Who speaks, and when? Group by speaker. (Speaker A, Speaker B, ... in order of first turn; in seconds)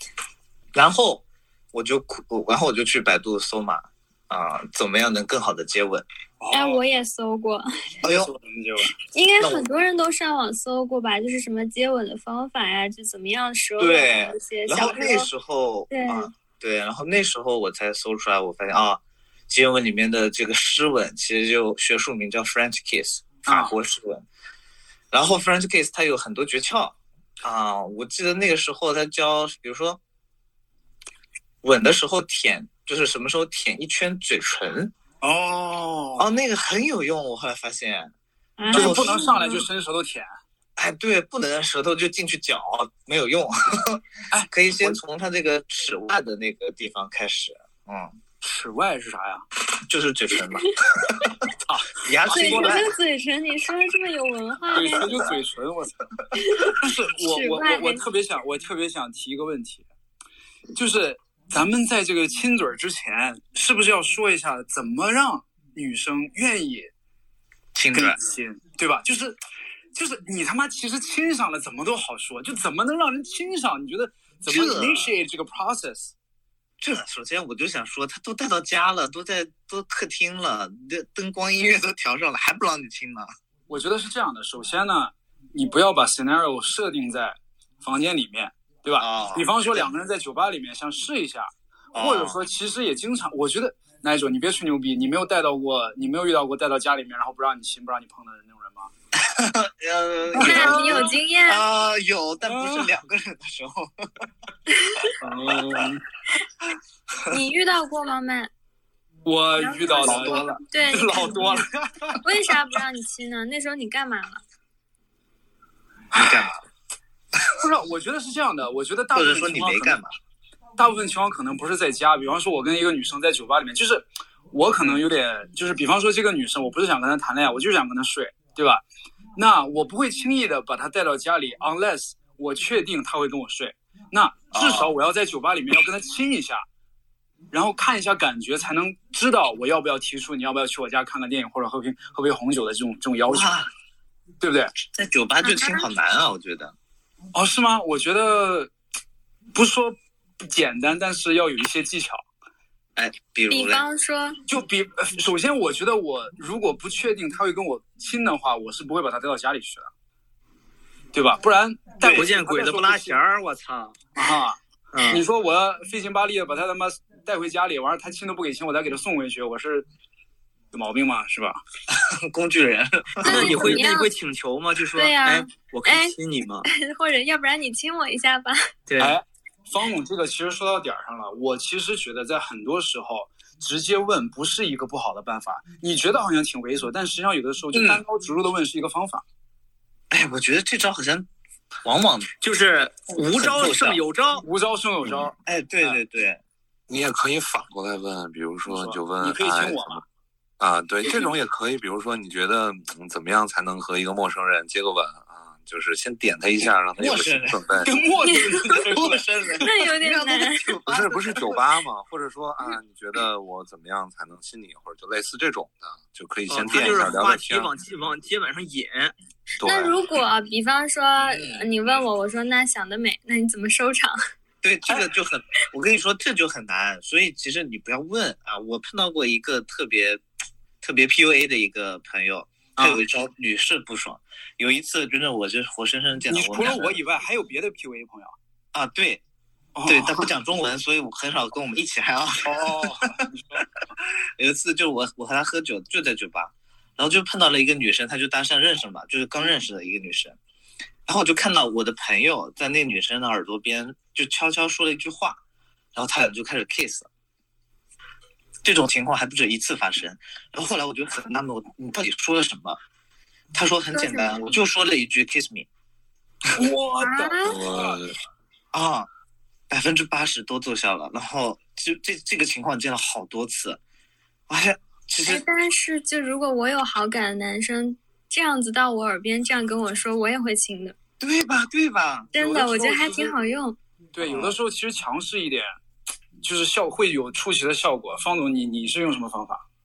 Speaker A: 0.8-6.0, 8.0-8.3, 9.4-9.7, 13.8-24.2, 25.1-30.0, 31.6-34.9, 36.2-38.1, 38.7-39.2, 40.8-48.2, 49.8-52.9, 67.8-68.2, 74.5-75.1, 76.8-83.3, 89.0-89.9, 91.9-92.4, 99.2-104.1, 110.0-110.5, 116.1-116.6, 119.1-120.1, 134.5-134.9, 143.3-143.7, 144.9-146.7, 153.0-153.8, 171.9-173.9, 190.1-191.3, 191.8-192.3, 193.3-194.0, 195.1-196.4, 207.0-207.6, 208.7-211.6, 221.2-221.6, 224.6-230.2, 230.8-237.0, 238.7-239.2, 239.8-243.2, 244.4-250.4, 251.1-255.4, 255.9-257.1, 258.6-262.8, 263.5-265.7, 268.7-269.1, 269.7-273.8, 274.5-275.4, 281.2-282.4, 284.2-284.6
Speaker B: 6.4-6.8, 8.0-8.9, 23.5-23.7, 35.2-36.3, 38.7-40.3, 44.3-45.0, 48.4-49.4, 51.7-52.9, 54.7-56.0, 56.6-59.8, 60.8-66.9, 67.9-69.4, 70.0-76.1, 83.7-98.9, 100.3-101.2, 102.4-102.9, 105.2-106.0, 109.2-112.5, 116.1-116.5, 117.5-120.0, 120.8-128.8, 129.4-136.6, 137.5-143.5, 144.4-144.7, 147.3-148.7, 149.5-152.2, 154.5-159.9, 161.1-163.2, 164.2-164.6, 165.1-169.9, 170.7-171.6, 179.0-189.2, 194.4-196.0, 198.7-200.0, 207.8-209.2, 236.3-238.3, 239.8-240.3, 242.4-243.7, 266.5-268.0, 282.4-283.3, 284.1-285.7, 286.4-289.6
Speaker C: 6.5-7.7, 9.1-15.3, 15.9-16.3, 38.6-39.6, 52.3-55.4, 56.3-58.0, 100.4-101.6, 104.7-105.1, 107.3-108.5, 109.6-111.6, 112.2-114.4, 145.4-145.8, 153.5-154.4, 173.2-174.1, 174.9-178.6, 208.2-208.7, 209.6-210.7, 219.6-224.2, 263.9-264.4, 267.0-267.6, 275.2-280.9, 282.3-283.8
Speaker D: 162.0-164.0, 164.9-165.2, 173.2-176.7, 178.9-179.2, 187.7-188.0, 192.4-194.4, 216.5-219.1
Speaker E: 196.9-200.0, 200.6-207.9, 210.9-217.7, 219.6-220.0, 267.4-268.1